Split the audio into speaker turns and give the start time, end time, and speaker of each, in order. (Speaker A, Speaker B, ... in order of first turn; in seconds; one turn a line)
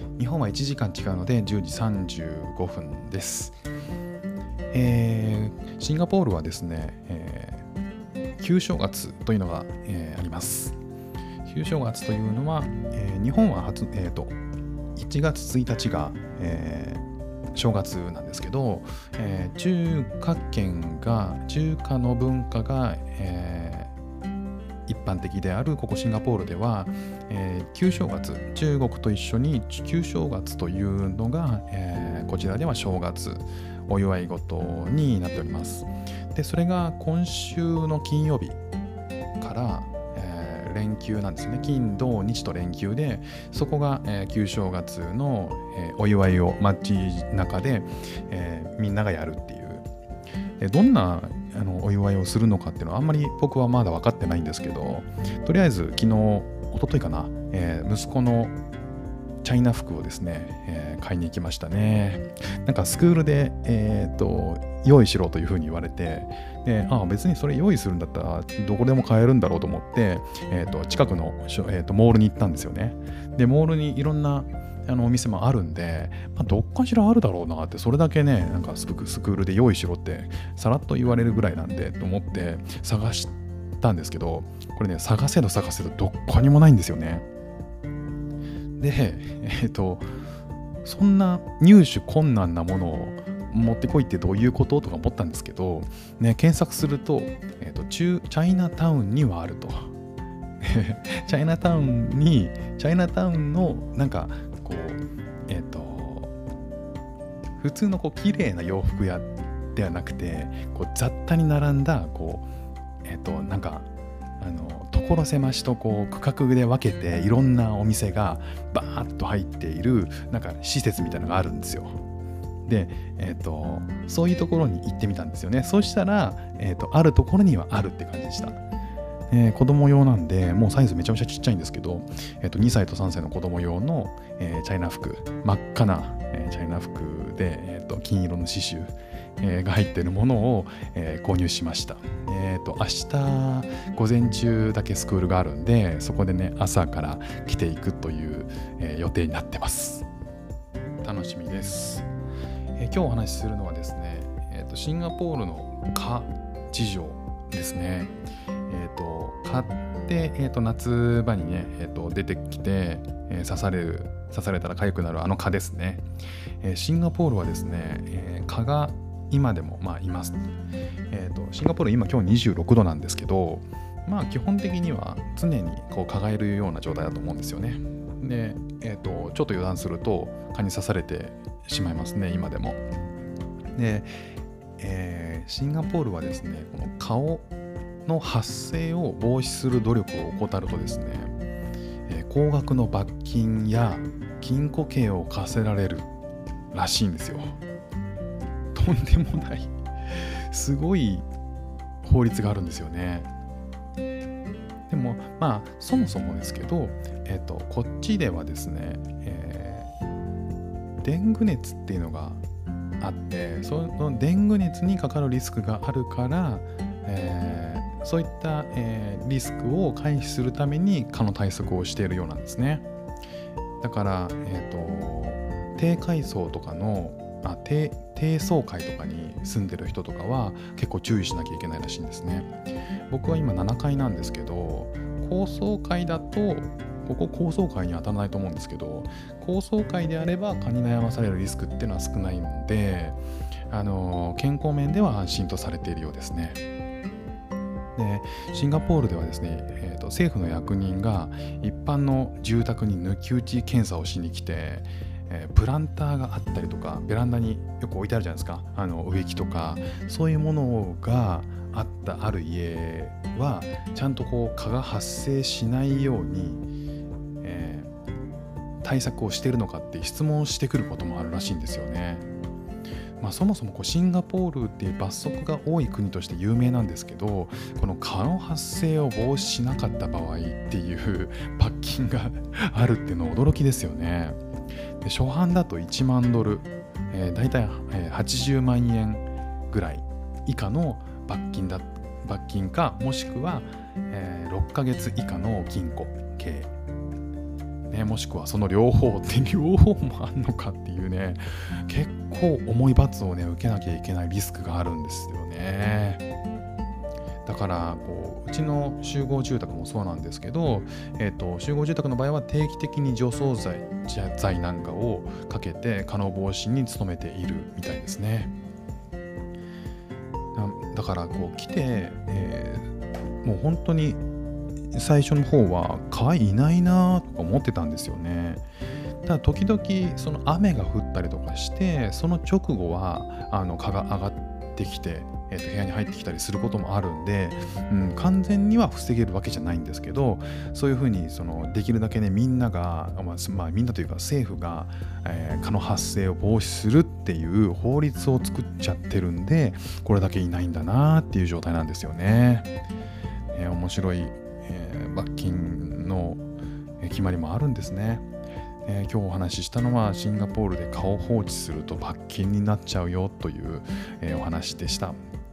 Speaker A: 0.2-3.6
Speaker A: 4.7-7.6
Speaker A: 8.4-10.8
Speaker A: 11.4-14.4
Speaker A: 15.0-23.9
Speaker A: 24.9-38.6
Speaker A: 39.4-49.9
Speaker A: 50.6-58.5
Speaker A: 59.4-87.2
Speaker A: 88.8-90.1
Speaker A: 90.8-99.9
Speaker A: 100.6-106.3
Speaker A: 107.6-112.5
Speaker A: 113.0-113.9
Speaker A: 114.4-122.0
Speaker A: 122.7-128.6
Speaker A: 129.3-150.1
Speaker A: 151.0-152.1
Speaker A: 152.8-158.1
Speaker A: 158.7-166.0
Speaker A: 166.6-170.4
Speaker A: 171.1-182.8
Speaker A: 183.8-184.1
Speaker A: 184.8-187.5
Speaker A: 188.1-191.3
Speaker A: 192.1-196.1
Speaker A: 196.7-197.6
Speaker A: 198.7-201.3
Speaker A: 202.0-203.3
Speaker A: 204.9-209.9
Speaker A: 211.0-212.4
Speaker A: 213.0-222.8
Speaker A: 223.8-232.5
Speaker A: 233.1-243.2
Speaker A: 243.7-246.6
Speaker A: 248.0-266.6
Speaker A: 267.4-267.9
Speaker A: 268.8-272.2
Speaker A: 273.2-284.4
Speaker A: 285.0-296.7
Speaker A: 297.9-306.2
Speaker A: 307.5-318.5
Speaker A: 320.6-322.9
Speaker A: 323.4-324.2
Speaker A: 324.9-328.7
Speaker A: 329.2-352.7
Speaker A: 353.5-356.4
Speaker A: 357.0-358.2
Speaker A: 358.9-365.2